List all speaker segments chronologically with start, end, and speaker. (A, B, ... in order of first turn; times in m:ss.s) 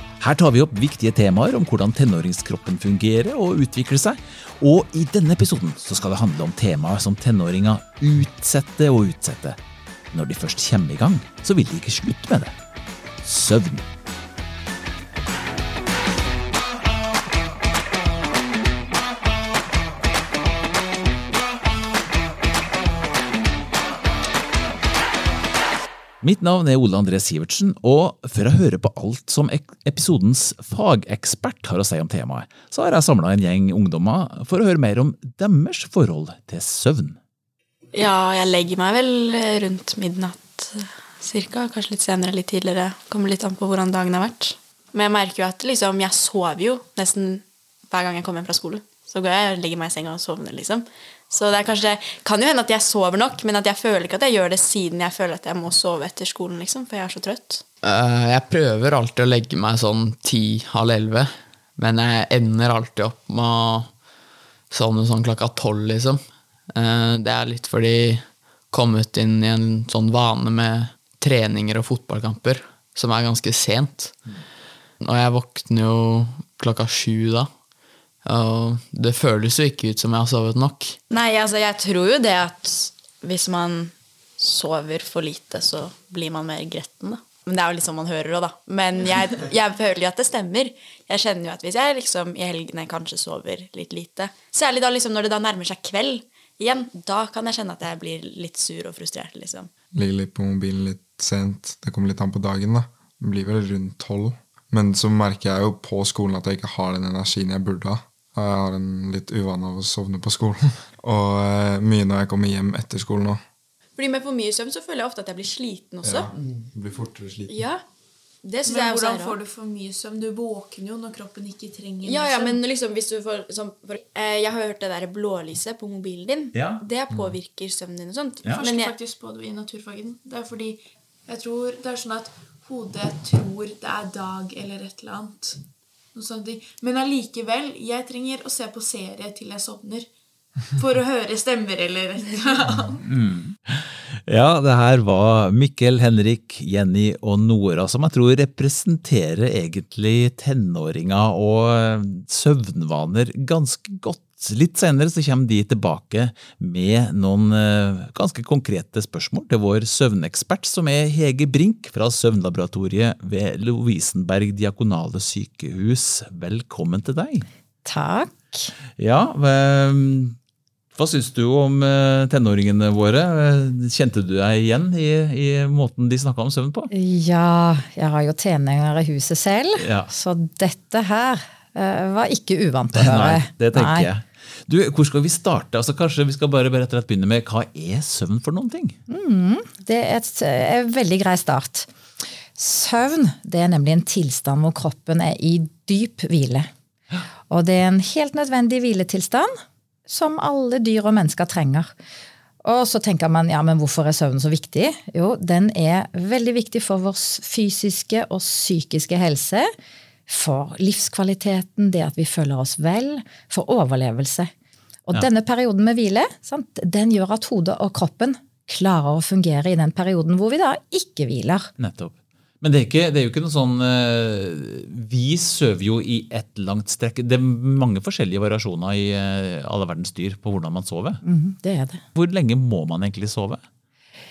0:00.2-0:09.6 A
0:10.1-0:12.6 A
0:13.2-0:13.9 A
0:26.2-0:37.2 A
0:37.9-0:57.6 B
0:57.8-1:04.0 C
1:04.7-1:14.2 C
1:15.0-1:17.5 C
1:18.2-1:21.0 C
1:21.1-1:39.7 B
1:39.9-1:53.4 D
1:54.0-1:56.3 B
1:56.0-1:57.5 D
1:57.5-1:57.8 B
1:58.4-1:59.4 B
1:58.6-2:02.6 E
2:02.0-2:09.0 B
2:06.5-2:06.8 A
2:08.5-2:15.6 E
2:16.2-2:20.1 E
2:20.8-2:23.0 E
2:23.0-2:47.5 A
2:47.8-2:48.7 F
2:49.0-2:50.4 A
2:51.0-2:56.9 A
2:56.9-3:04.1 F
2:59.8-3:00.1 A
3:02.9-3:09.0 A
3:09.1-3:11.9 F
3:12.6-3:16.7 F
3:17.5-3:21.9 F
3:22.6-3:29.7 F
3:30.3-3:34.5 F
3:35.1-3:41.7 F
3:41.8-3:51.2 A
3:51.2-3:52.0 F
3:52.2-3:53.6 A